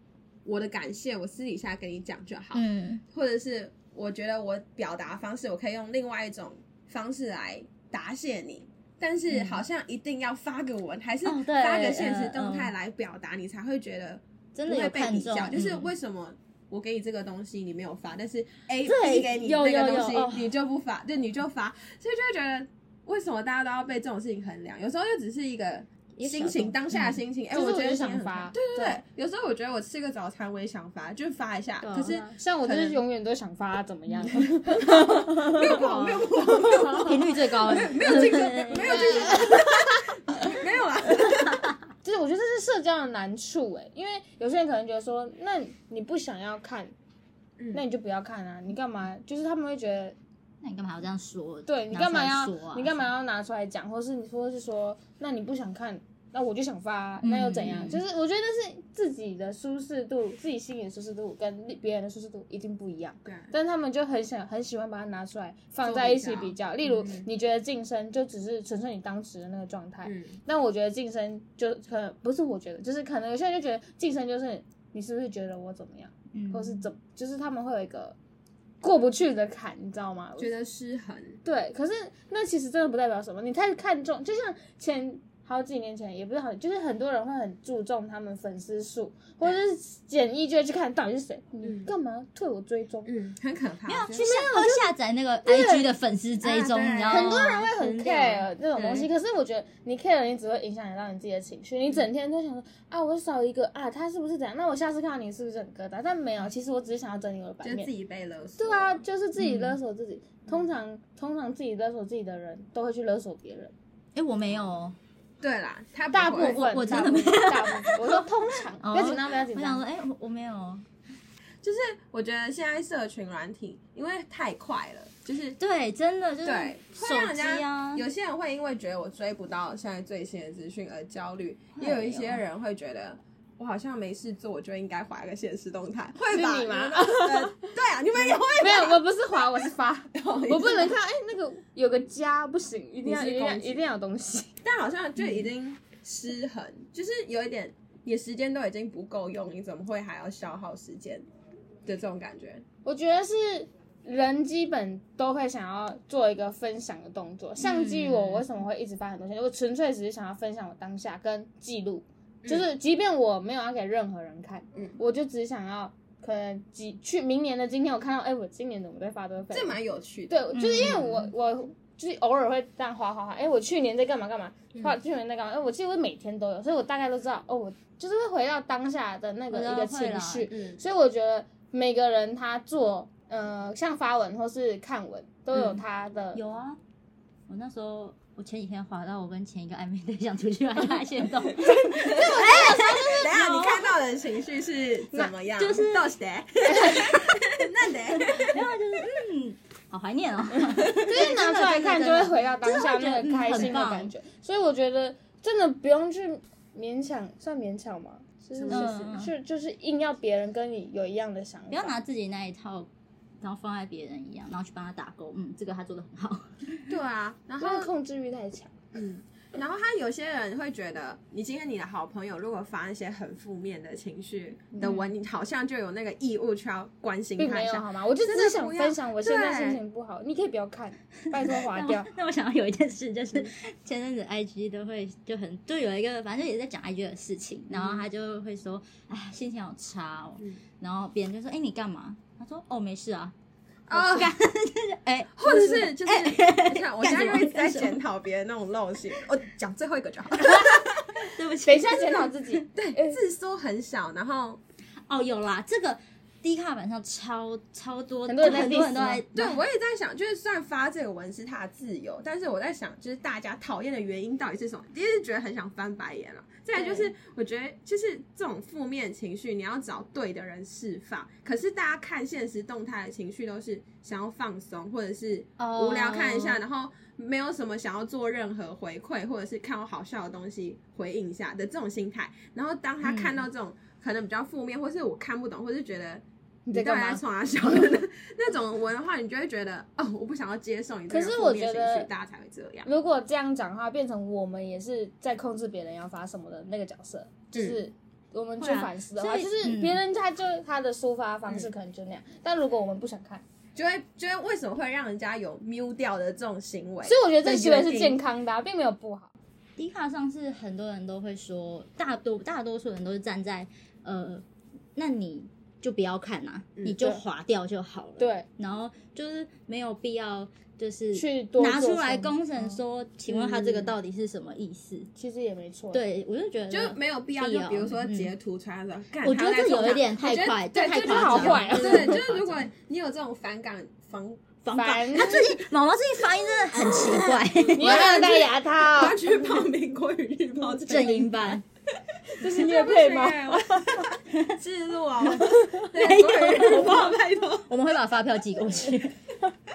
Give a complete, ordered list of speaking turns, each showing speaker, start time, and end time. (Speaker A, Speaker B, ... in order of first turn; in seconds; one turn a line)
Speaker A: 0.4-33.0
Speaker B: 2.5-3.0
Speaker B: 9.3-9.6
Speaker B: 11.2-12.7
Speaker B: 14.5-15.9
Speaker B: 18.8-20.4
Speaker C: 19.5-20.3
Speaker B: 26.2-27.2
Speaker C: 27.5-29.0
Speaker B: 31.8-32.3
Speaker C: 32.1-35.7
Speaker A: 34.3-41.7
Speaker B: 35.5-39.6
Speaker C: 38.8-39.6
Speaker B: 41.3-41.8
Speaker C: 42.0-46.9
Speaker A: 47.6-47.8
Speaker C: 47.7-50.1
Speaker B: 50.6-53.0
Speaker C: 51.7-78.2
Speaker B: 57.2-58.0
Speaker A: 63.2-63.5
Speaker A: 65.8-67.3
Speaker A: 70.0-70.4
Speaker B: 76.3-76.8
Speaker C: 78.8-80.5
Speaker A: 80.4-81.4
Speaker C: 81.4-93.1
Speaker A: 91.6-91.9
Speaker A: 93.0-94.5
Speaker B: 93.9-99.1
Speaker C: 94.2-94.9
Speaker C: 95.5-95.9
Speaker A: 96.4-97.4
Speaker C: 97.1-107.9
Speaker A: 107.6-109.0
Speaker C: 108.6-113.7
Speaker B: 109.4-109.8
Speaker B: 114.1-115.0
Speaker A: 115.4-117.3
Speaker C: 116.1-119.8
Speaker B: 116.2-118.2
Speaker B: 118.8-120.8
Speaker A: 121.6-125.6
Speaker B: 125.6-128.0
Speaker A: 126.4-139.0
Speaker B: 131.8-132.4
Speaker C: 136.3-137.7
Speaker C: 138.4-144.6
Speaker A: 140.1-140.9
Speaker A: 143.0-143.8
Speaker A: 144.6-151.2
Speaker A: 151.8-152.6
Speaker C: 152.8-186.4
Speaker B: 157.6-158.5
Speaker A: 169.5-171.0
Speaker B: 170.5-171.3
Speaker B: 179.5-180.5
Speaker A: 180.5-180.8
Speaker B: 186.3-186.8
Speaker B: 187.5-193.9
Speaker A: 191.6-198.7
Speaker C: 191.9-193.4
Speaker B: 195.6-196.1
Speaker C: 196.6-197.1
Speaker B: 198.1-204.1
Speaker C: 200.9-211.9
Speaker A: 208.5-209.1
Speaker B: 208.7-209.3
Speaker B: 211.7-212.9
Speaker B: 213.4-216.9
Speaker A: 216.9-217.9
Speaker C: 217.6-218.7
Speaker A: 218.9-229.8
Speaker C: 227.4-232.1
Speaker B: 231.5-243.3
Speaker A: 237.7-238.1
Speaker A: 243.9-244.3
Speaker B: 243.9-248.0
Speaker A: 245.3-251.3
Speaker B: 251.2-252.6
Speaker C: 251.6-253.2
Speaker A: 252.7-254.6
Speaker B: 255.1-259.6
Speaker C: 258.3-259.2
Speaker A: 259.3-292.9
Speaker C: 266.8-267.1
Speaker B: 275.6-276.6
Speaker B: 283.0-283.4
Speaker C: 286.6-287.2
Speaker C: 291.1-292.1
Speaker C: 292.8-303.4
Speaker A: 297.5-297.8
Speaker B: 298.6-300.0
Speaker A: 303.7-308.2
Speaker C: 307.0-309.3
Speaker B: 309.8-314.4
Speaker B: 314.9-325.1
Speaker C: 316.9-317.2
Speaker C: 318.2-318.4
Speaker C: 321.1-322.8
Speaker A: 323.3-323.9
Speaker C: 325.1-326.0
Speaker B: 325.9-328.3
Speaker A: 326.7-334.5
Speaker B: 329.2-332.6
Speaker C: 330.7-332.2
Speaker B: 334.6-338.3
Speaker C: 334.7-335.6
Speaker A: 336.8-347.7
Speaker C: 337.8-339.2
Speaker B: 340.8-341.6
Speaker C: 342.4-344.1
Speaker B: 345.3-349.2